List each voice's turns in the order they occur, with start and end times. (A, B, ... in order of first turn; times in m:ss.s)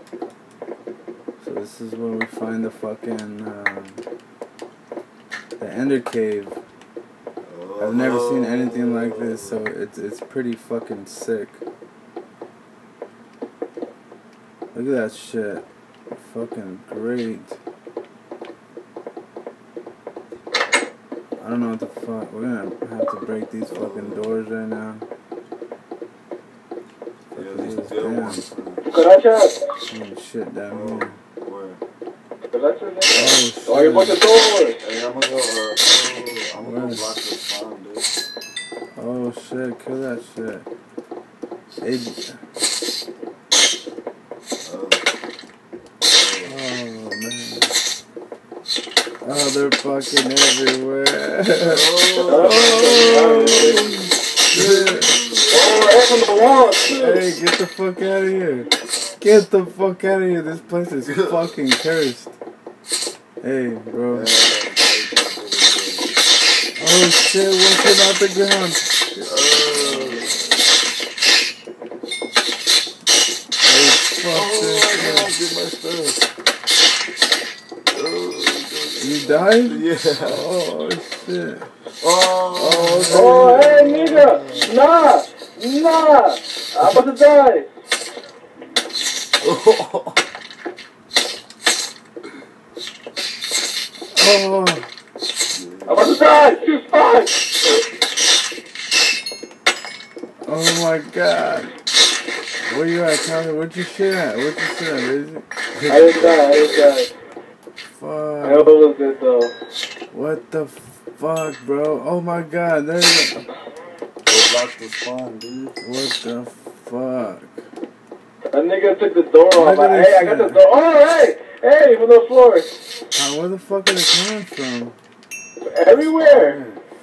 0:01.4-0:04.0 A
0:05.6-0:06.6 A
0:07.4-0:09.6 B
0:07.8-0:11.6 A
0:14.7-0:17.6 A
0:21.4-0:25.0 A
0:23.7-0:24.3 B
0:27.3-0:28.4 A
0:27.3-0:28.9 B
0:28.9-0:29.6 C
0:29.9-0:31.2 A
0:30.7-0:31.8 B
0:32.5-0:34.8 C
0:33.1-0:34.2 A
0:34.8-0:38.1 B
0:36.6-0:37.1 A
0:38.9-0:40.6 A
0:41.8-0:42.4 A
0:44.6-0:45.0 B
0:46.0-0:46.6 B
0:46.4-0:47.7 A
0:49.2-0:55.2 A
0:51.6-0:56.9 B
0:52.2-0:54.0 C
0:55.5-0:57.2 C
0:56.9-1:02.4 A
1:01.0-1:01.5 B
1:03.4-1:04.3 A
1:04.1-1:06.1 B
1:06.8-1:10.4 A
1:09.2-1:10.4 B
1:13.6-1:15.3 A
1:14.3-1:16.2 B
1:17.9-1:20.4 B
1:19.0-1:21.7 A
1:22.0-1:24.7 B
1:22.5-1:24.6 A
1:23.0-1:27.7 C
1:29.4-1:30.2 B
1:34.1-1:34.9 A
1:35.5-1:36.2 B
1:35.8-1:37.6 C
1:40.4-1:41.7 A
1:42.6-1:45.5 A
1:45.7-1:47.0 B
1:45.9-1:47.1 C
1:47.9-1:48.8 A
1:48.4-1:49.5 C
1:50.1-1:53.5 A
1:54.2-1:55.8 B
1:55.8-1:57.6 A
1:58.5-2:02.7 C
1:59.5-2:00.6 A
2:03.1-2:05.0 A
2:05.6-2:06.6 C
2:05.9-2:06.8 B